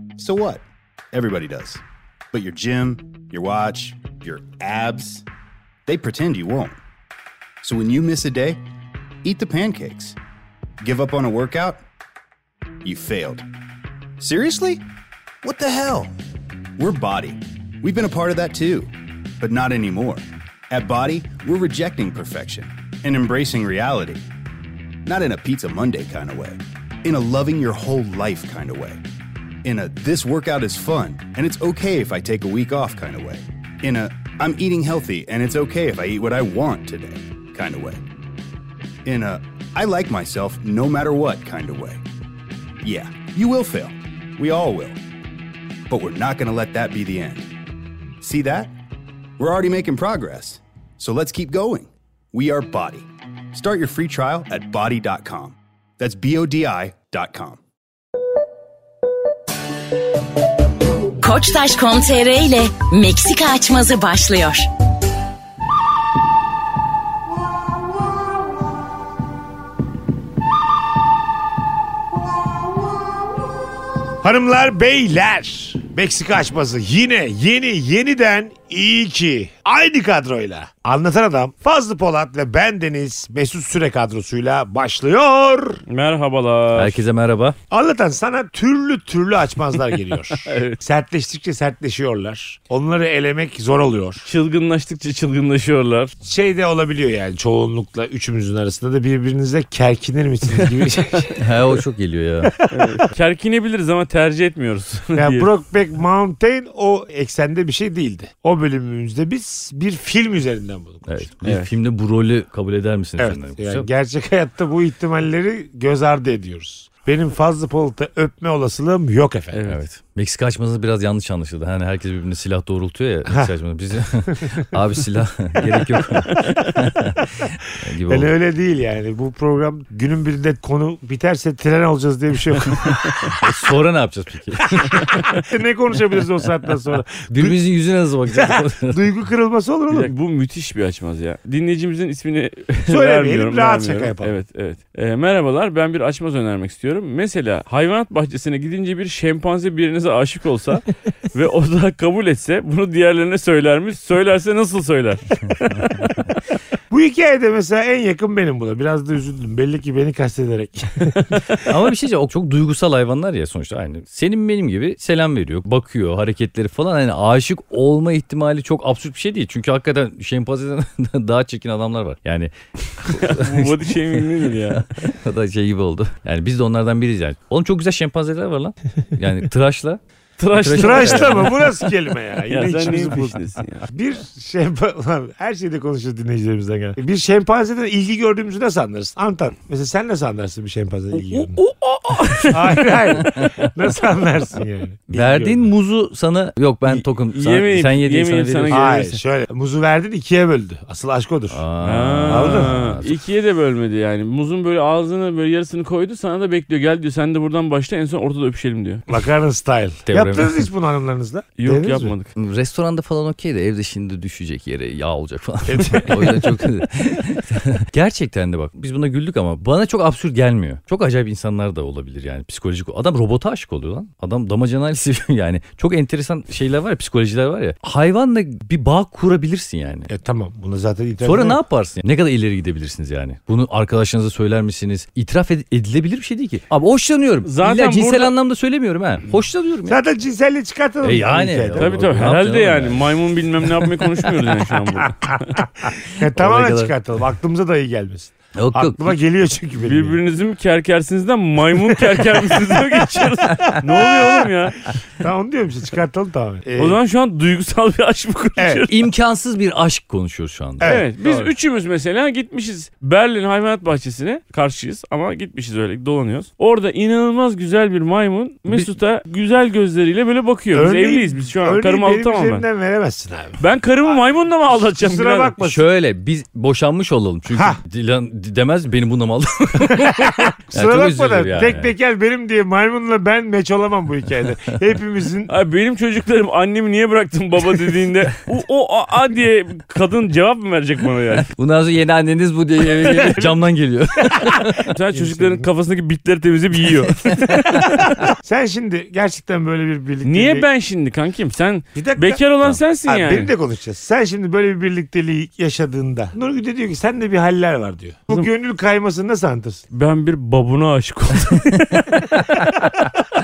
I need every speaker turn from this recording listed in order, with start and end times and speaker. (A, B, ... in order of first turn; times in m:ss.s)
0:00.2-0:05.2 A
0:05.9-0:06.8 A
0:07.6-0:08.6 A
0:09.2-0:10.2 A
0:10.8-0:11.8 A
0:12.8-0:13.5 A
0:14.2-0:14.8 A
0:15.4-0:16.2 A
0:16.8-0:24.2 A
0:25.0-0:29.0 A
0:29.6-0:38.0 A
0:39.0-0:42.0 A
0:42.8-0:45.0 A
0:45.9-0:47.5 A
0:48.2-0:48.7 A
0:49.4-0:57.6 A
1:01.2-1:04.7 B
1:14.2-1:25.8 C
1:25.9-1:27.0 D
1:26.7-1:27.6 E
1:27.7-1:34.3 C
1:30.4-1:30.8 D
1:34.2-1:36.1 D
1:36.2-1:41.5 C
1:41.4-1:42.6 E
1:42.6-1:43.0 C
1:42.7-1:45.5 D
1:45.2-1:51.2 C
1:51.1-1:53.9 E
1:51.4-1:51.7 D
1:53.2-1:59.7 C
1:59.5-1:59.8 D
1:59.7-2:08.3 E
2:06.3-2:06.8 D
2:08.0-2:13.5 C
2:13.4-2:15.2 E
2:14.7-2:17.6 C
2:17.3-2:19.0 E
2:18.3-2:20.1 C
2:19.9-2:36.1 D
2:22.9-2:24.3 C
2:36.9-2:41.6 C
2:41.7-3:00.0 E
2:53.1-2:55.1 D
3:00.4-3:01.8 D
3:00.5-3:01.6 E
3:00.7-3:11.6 C
3:02.5-3:03.9 D
3:11.1-3:13.0 D
3:12.5-3:15.7 C
3:13.2-3:13.6 E
3:15.1-3:18.9 E
3:17.3-3:19.2 D
3:18.7-3:21.6 C
3:21.5-3:23.1 E
3:21.8-3:29.0 D
3:22.3-3:23.0 C
3:29.1-3:32.1 C
3:30.1-3:30.7 E
3:31.6-3:32.3 D
3:32.4-3:50.1 E
3:35.7-3:36.6 C
3:50.1-3:51.6 C
3:51.2-4:00.0 E
3:57.4-3:58.3 D
3:59.9-4:02.4 C
4:01.0-4:04.3 E
4:01.7-4:05.6 D
4:05.5-4:10.2 C
4:06.3-4:06.9 E
4:08.6-4:09.2 E
4:09.8-4:14.9 D
4:12.1-4:14.5 C
4:15.2-4:17.0 C
4:16.8-4:19.0 D
4:18.6-4:18.8 C
4:18.9-4:21.0 E
4:20.8-4:21.5 C
4:20.8-4:32.6 D
4:30.7-4:34.1 C
4:33.6-4:35.6 D
4:34.7-4:35.8 C
4:35.6-4:42.0 E
4:39.8-4:45.5 C
4:45.5-4:51.5 D
4:51.6-4:54.9 E
4:53.2-4:53.6 D
4:54.9-4:58.1 D
4:55.1-4:55.7 C
4:57.6-5:00.7 C
5:00.2-5:03.5 D
5:02.0-5:02.4 C
5:03.1-5:09.8 C
5:09.9-5:12.5 D
5:12.6-5:13.0 C